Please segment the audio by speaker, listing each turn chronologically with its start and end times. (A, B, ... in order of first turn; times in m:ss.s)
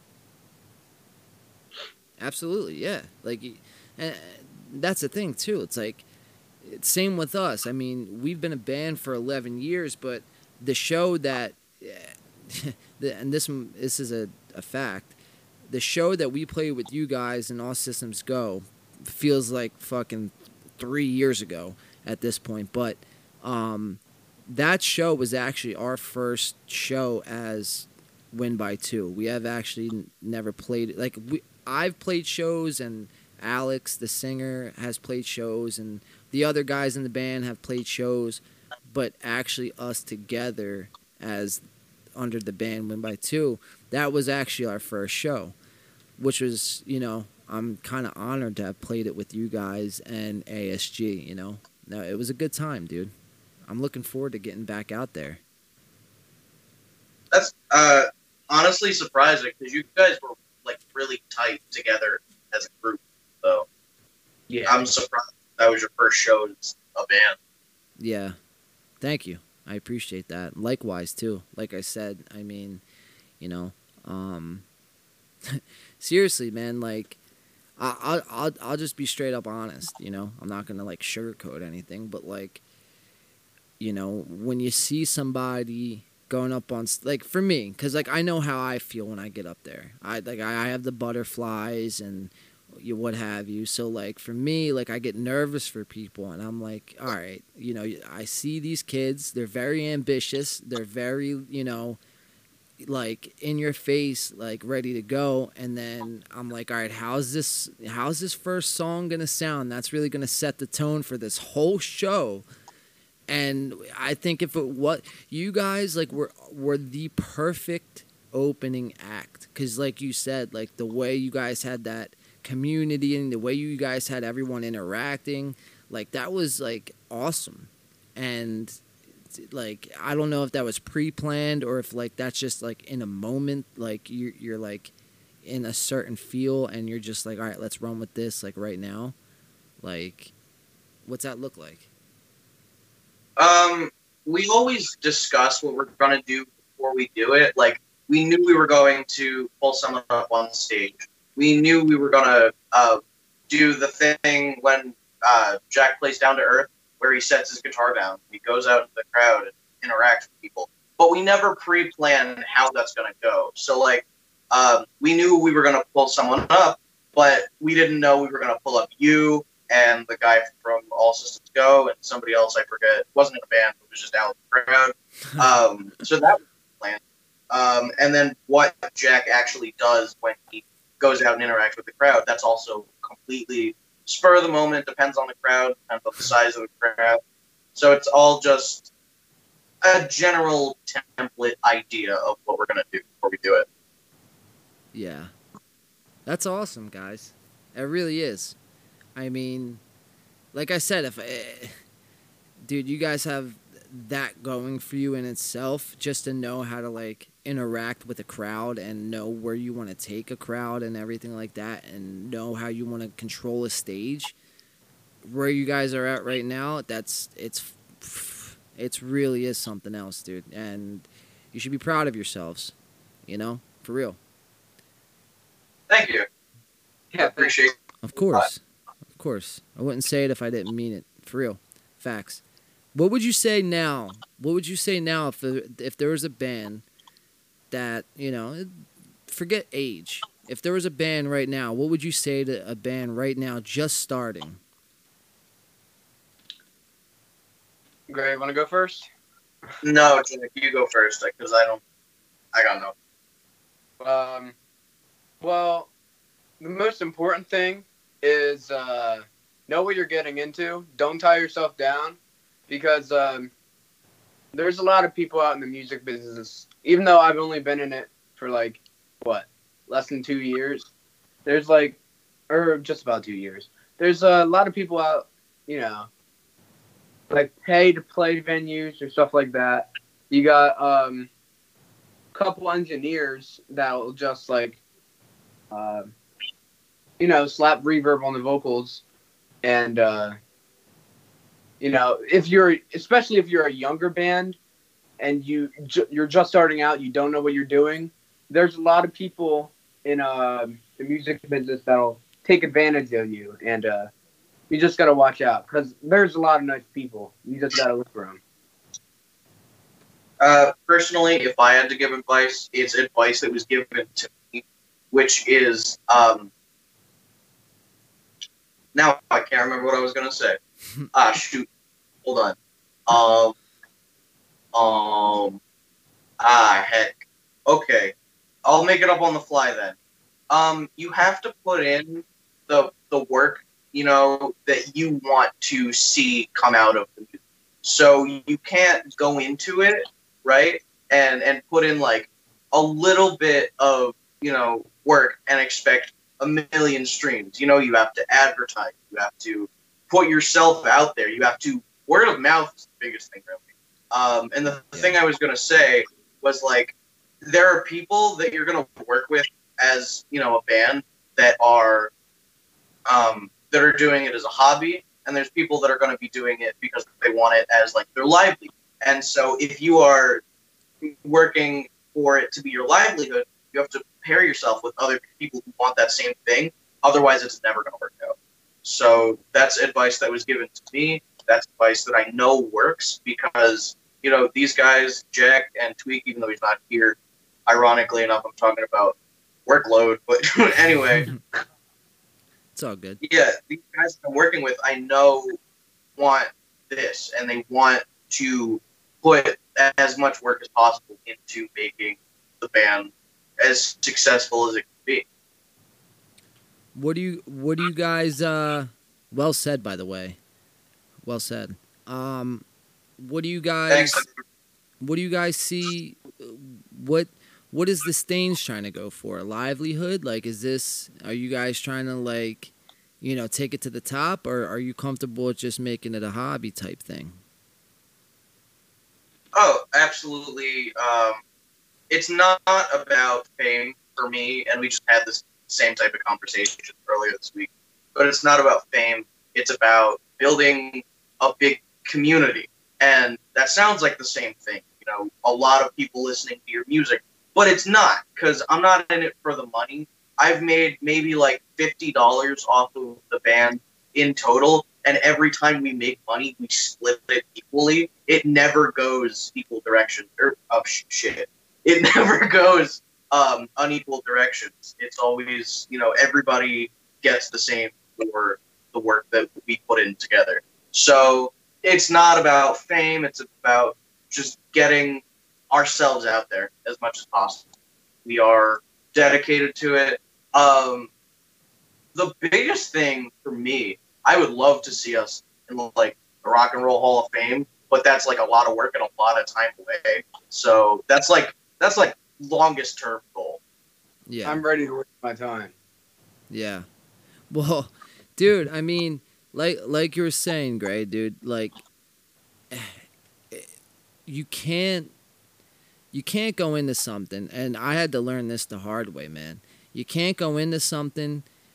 0:02.2-0:06.0 A
0:06.6-0:15.2 A
0:15.7-0:41.6 A
0:42.2-0:45.6 A
0:46.2-0:53.1 A
0:53.7-0:55.4 A
0:57.3-1:03.7 B
1:04.5-1:04.9 C
1:04.7-1:07.4 B
1:08.0-1:08.4 A
1:09.0-1:12.8 A
1:13.4-1:14.6 A
1:15.5-1:17.2 A
1:17.8-1:22.6 A
1:23.8-1:42.0 A
1:42.8-1:52.5 A
1:53.3-2:14.9 A
2:15.4-2:19.2 A
2:19.8-2:20.3 A
2:21.0-2:21.8 A
2:23.4-3:07.2 B
3:07.8-3:08.9 B
3:09.8-3:13.7 B
3:14.9-3:15.3 A
3:16.3-3:18.6 A
3:19.2-3:19.8 A
3:20.5-3:21.8 A
3:22.6-3:34.4 A
3:35.2-3:42.8 A
3:43.3-3:44.2 A
3:45.9-3:46.3 B
3:47.1-3:47.5 C
3:47.2-3:47.8 B
3:48.0-3:48.6 A
3:49.1-3:52.4 A
3:53.0-3:56.8 A
3:57.7-4:04.6 A
4:08.1-4:09.1 C
4:09.8-4:11.8 B
4:12.5-4:12.9 B
4:14.0-4:14.6 C
4:15.4-4:15.9 C
4:16.6-4:22.2 C
4:22.7-4:23.5 C
4:24.5-4:30.9 C
4:31.4-4:32.0 C
4:32.5-4:36.1 C
4:37.3-4:41.3 C
4:42.3-4:44.8 C
4:45.7-4:46.1 C
4:47.2-4:49.0 C
4:49.6-4:50.4 C
4:51.8-4:54.6 C
4:55.2-5:04.1 C
5:04.7-5:08.4 C
5:10.4-5:16.5 B
5:18.9-5:20.6 B
5:21.1-5:21.7 B
5:22.2-5:22.6 B
5:23.1-5:23.6 B
5:24.7-5:25.6 B
5:26.4-5:28.1 B
5:28.6-5:30.0 B
5:30.5-6:02.1 B
6:03.1-6:10.4 B
6:11.0-6:29.2 B
6:29.7-6:31.3 B
6:32.8-6:33.2 A
6:33.2-6:35.6 B
6:36.2-6:45.2 B
6:46.9-6:50.4 A
6:51.2-6:52.6 A
6:53.2-6:54.2 A
6:53.9-6:54.3 B
6:55.0-7:07.4 A
7:09.5-7:11.4 B
7:12.1-7:57.7 B
7:58.2-8:01.1 B
8:02.2-8:13.6 B
8:14.3-8:14.6 A
8:14.4-8:15.7 C
8:16.5-8:16.9 A
8:17.5-8:21.8 A
8:22.7-8:23.7 A
8:24.3-8:25.1 A
8:26.1-8:31.5 A